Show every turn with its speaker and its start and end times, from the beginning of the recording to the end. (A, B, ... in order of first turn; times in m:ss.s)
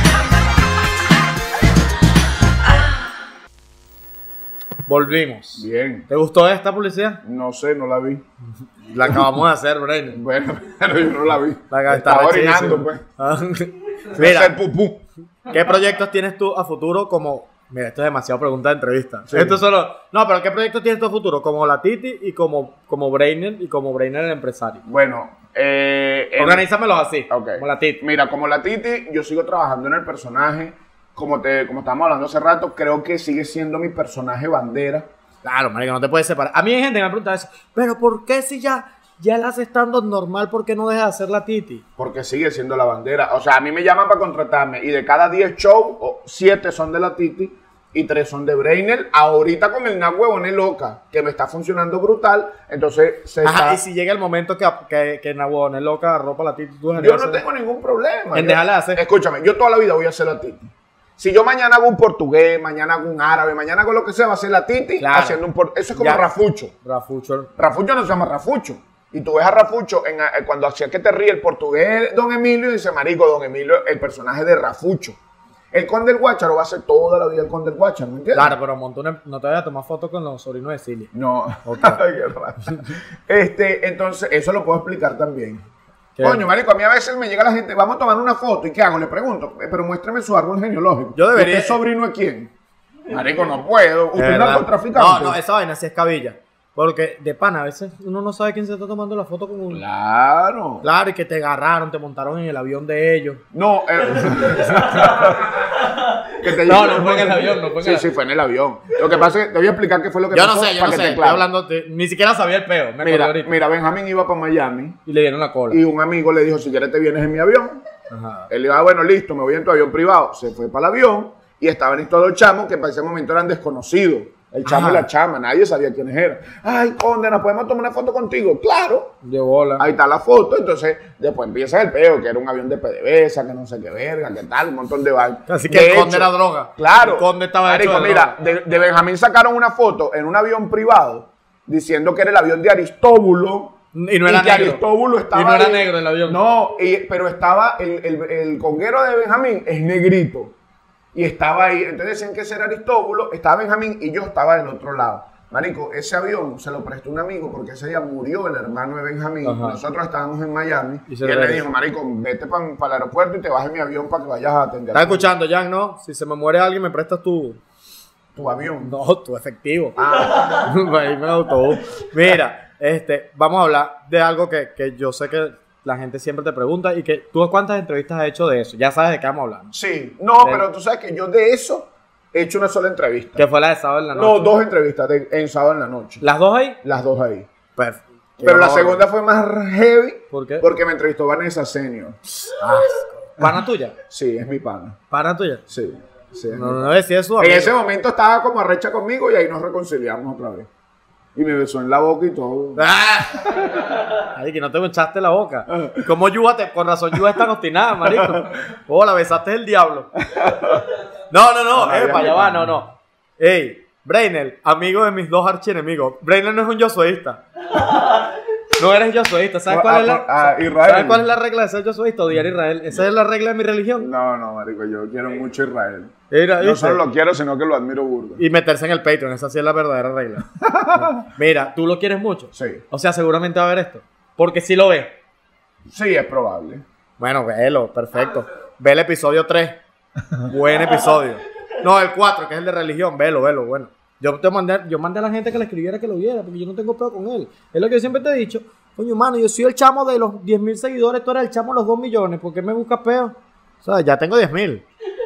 0:04.9-0:07.2 A
0:05.6-0:06.1 B
0:07.2-0:08.2 B
0:08.9-0:10.2 A
0:10.1-0:13.0 B
0:11.7-0:14.5 A
0:14.1-0:15.0 B
0:15.5-0:24.8 A
0:19.3-0:19.6 B
0:24.8-0:26.6 B
0:26.4-0:28.0 A
0:27.3-0:35.0 B
0:35.4-0:41.8 A
0:42.0-0:53.8 B
0:53.4-0:57.4 A
0:57.0-1:06.7 B
0:58.3-0:59.0 A
1:05.0-1:05.4 A
1:06.0-1:06.2 A
1:06.8-1:07.5 A
1:07.6-1:15.2 B
1:15.7-1:18.5 B
1:18.3-1:21.1 A
1:21.1-1:25.6 B
1:21.6-1:22.0 A
1:26.2-1:26.4 A
1:26.2-1:32.5 B
1:31.1-1:31.8 A
1:33.1-1:35.4 B
1:34.2-1:39.8 A
1:39.7-1:40.9 B
1:40.8-1:43.4 A
1:43.5-1:45.7 B
1:44.2-1:45.4 A
1:46.3-1:51.4 B
1:46.6-1:48.1 A
1:50.3-1:53.5 A
1:53.0-1:55.0 B
1:55.0-1:55.8 A
1:55.7-1:57.8 B
1:58.1-1:58.5 A
1:58.5-2:09.1 B
2:04.6-2:05.0 A
2:09.2-2:09.9 A
2:09.8-2:23.7 B
2:15.5-2:18.4 A
2:23.9-2:24.8 A
2:24.2-2:30.5 B
2:25.3-2:26.4 A
2:31.1-2:45.3 B
2:39.4-2:39.8 A
2:41.1-2:41.6 A
2:44.9-2:47.6 A
2:48.3-2:48.9 B
2:48.8-2:59.7 A
2:50.0-2:50.8 B
2:59.7-3:03.4 B
3:00.4-3:00.6 A
3:03.4-3:04.5 A
3:04.1-3:06.2 B
3:06.2-3:06.8 A
3:06.8-3:07.5 B
3:07.8-3:09.0 A
3:08.4-3:12.2 B
3:10.3-3:10.6 A
3:12.6-3:13.9 A
3:14.1-3:15.0 B
3:15.1-3:15.6 A
3:15.7-3:20.7 B
3:16.5-3:17.7 A
3:21.4-3:22.8 B
3:22.8-3:30.2 A
3:25.7-3:26.0 B
3:30.2-3:30.9 B
3:31.3-3:44.1 A
3:31.7-3:32.7 B
3:39.7-3:41.3 B
3:44.0-3:48.4 B
3:46.3-3:47.0 A
3:48.4-3:55.1 A
3:50.6-3:51.1 B
3:52.5-3:52.8 B
3:55.9-3:56.8 B
3:57.2-3:59.8 A
4:00.4-4:14.8 A